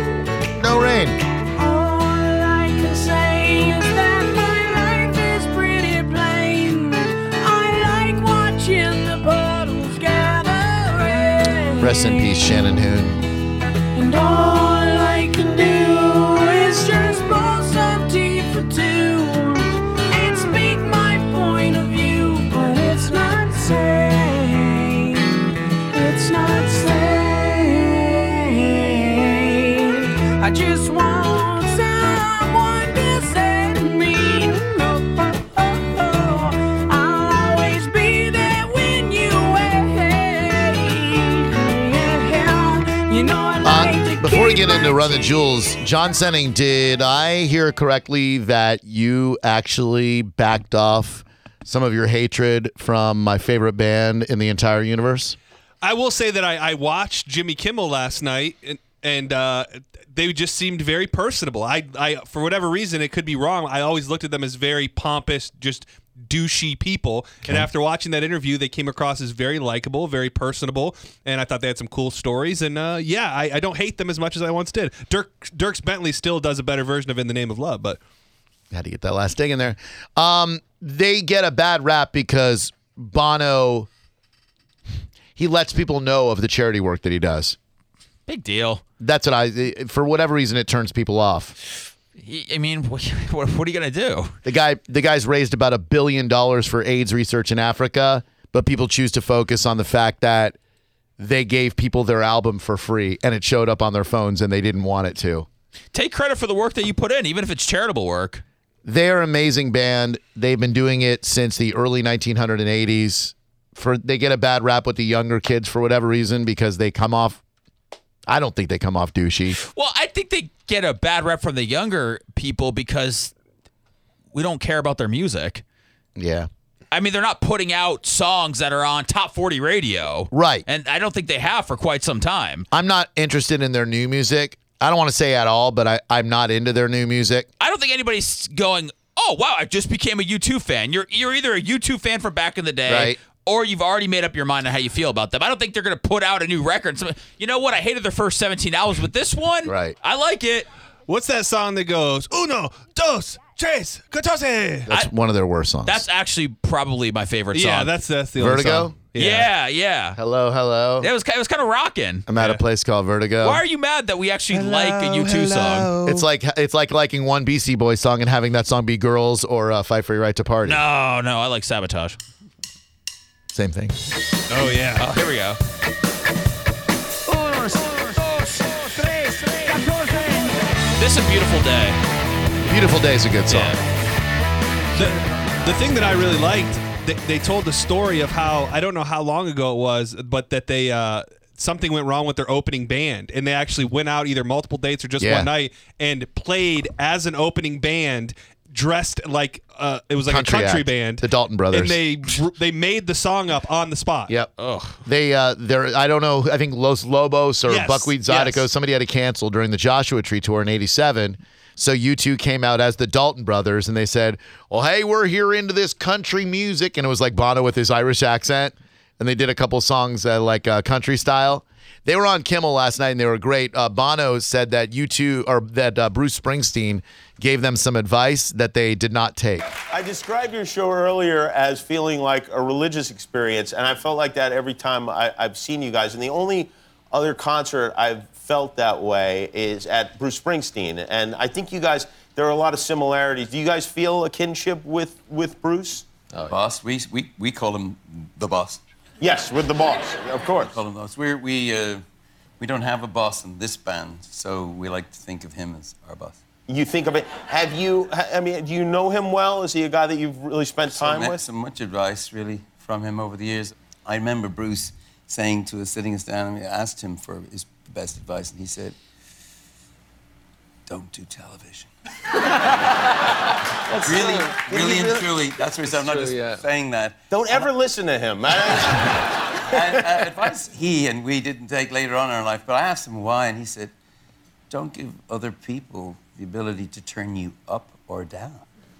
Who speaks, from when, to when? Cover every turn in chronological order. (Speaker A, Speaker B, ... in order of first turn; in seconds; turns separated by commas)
Speaker A: 0.5-1.2, Speaker B: 1.6-12.4, Speaker A: 11.8-13.2, Speaker B: 13.9-25.4, Speaker B: 25.9-45.2, Speaker A: 43.6-55.4, Speaker C: 55.8-78.0, Speaker A: 78.7-83.9, Speaker A: 85.3-87.6, Speaker D: 88.3-88.8, Speaker A: 89.0-91.5, Speaker D: 92.2-94.3, Speaker A: 94.4-100.6, Speaker A: 101.2-105.5, Speaker D: 105.9-108.4, Speaker A: 108.8-117.4, Speaker A: 118.3-119.6, Speaker D: 119.5-123.3, Speaker D: 124.3-125.6, Speaker A: 126.2-126.5, Speaker D: 126.9-132.7, Speaker A: 130.3-130.7, Speaker A: 132.7-137.5, Speaker D: 137.6-150.7, Speaker A: 142.9-143.2, Speaker A: 149.6-149.9, Speaker C: 151.1-154.8, Speaker A: 154.8-156.0, Speaker D: 155.8-157.9, Speaker C: 157.5-159.5, Speaker A: 158.4-158.9, Speaker D: 159.2-160.2, Speaker A: 160.2-161.1, Speaker D: 161.0-162.2, Speaker A: 162.3-163.6, Speaker C: 162.4-162.6, Speaker D: 163.4-165.9, Speaker C: 164.5-166.2, Speaker A: 166.0-170.8, Speaker D: 170.6-172.2, Speaker A: 173.5-173.9, Speaker C: 174.5-175.0, Speaker D: 175.0-175.6, Speaker D: 181.0-182.0, Speaker A: 182.6-183.8, Speaker D: 183.5-183.8, Speaker C: 184.9-204.3, Speaker A: 195.2-195.5, Speaker A: 200.2-202.0, Speaker D: 204.6-205.0, Speaker A: 205.0-229.7, Speaker C: 207.7-208.7, Speaker E: 229.9-246.1, Speaker F: 246.3-248.8, Speaker E: 249.2-250.8, Speaker F: 250.7-252.0, Speaker F: 252.6-256.4, Speaker E: 256.7-261.4, Speaker F: 260.9-269.0, Speaker F: 270.9-271.9, Speaker E: 273.9-275.5, Speaker F: 274.0-277.7, Speaker E: 277.3-280.3, Speaker F: 279.7-283.9, Speaker F: 284.7-288.6